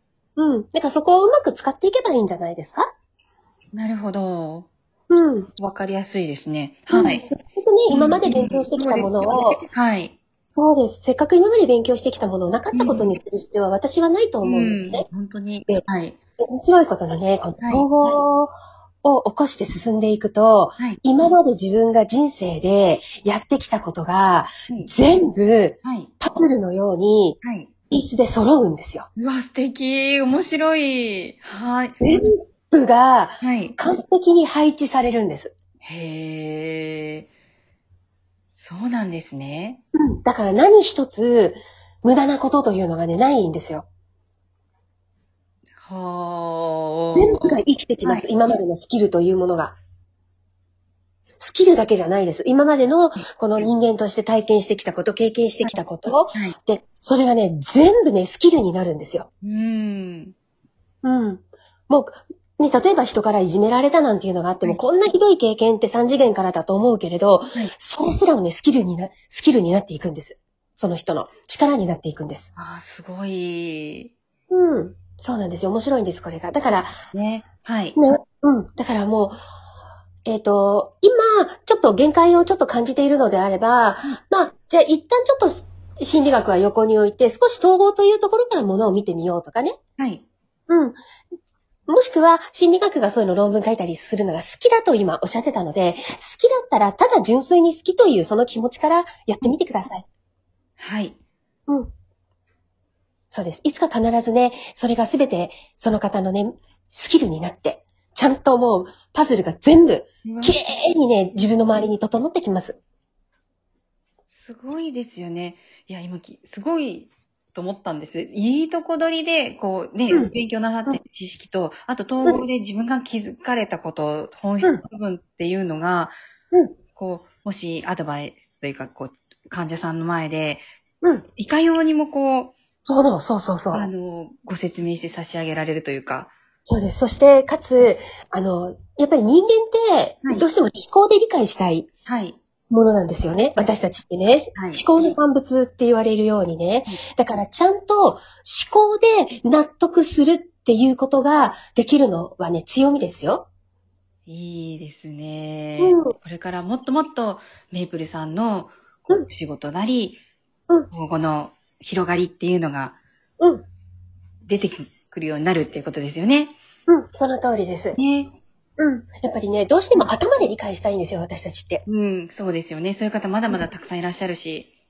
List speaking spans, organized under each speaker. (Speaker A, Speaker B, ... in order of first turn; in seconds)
Speaker A: 0.4-2.9, 5.1-5.5, 6.9-9.6, 10.5-15.0, 16.4-18.5, 19.0-27.4, 27.9-29.1, 32.0-35.5, 40.0-43.9, 47.1-49.7, 51.4-59.3, 61.0-72.5, 74.5-76.9, 78.0-79.4, 80.2-89.8, 90.7-91.0, 91.9-100.0, 103.3-112.8, 132.8-133.9, 136.7-141.9, 142.7-153.4, 155.8-156.1, 163.4-163.6, 166.9-168.0, 168.8-171.8
Speaker B: 3.7-4.7, 5.6-7.2, 7.9-10.1, 12.7-13.1, 14.4-16.2, 17.6-18.2, 25.8-26.1, 27.4-27.7, 29.2-32.0, 33.4-33.7, 35.8-37.3, 38.5-39.8, 45.8-48.2, 59.4-60.3, 72.5-74.1, 77.1-78.0, 90.0-90.2, 100.8-101.2, 110.2-110.6, 114.3-126.2, 127.0-130.6, 131.4-132.5, 133.7-136.3, 142.1-142.4, 144.5-144.8, 154.3-160.2, 160.9-163.0, 164.4-166.5, 168.0-168.3, 171.9-174.7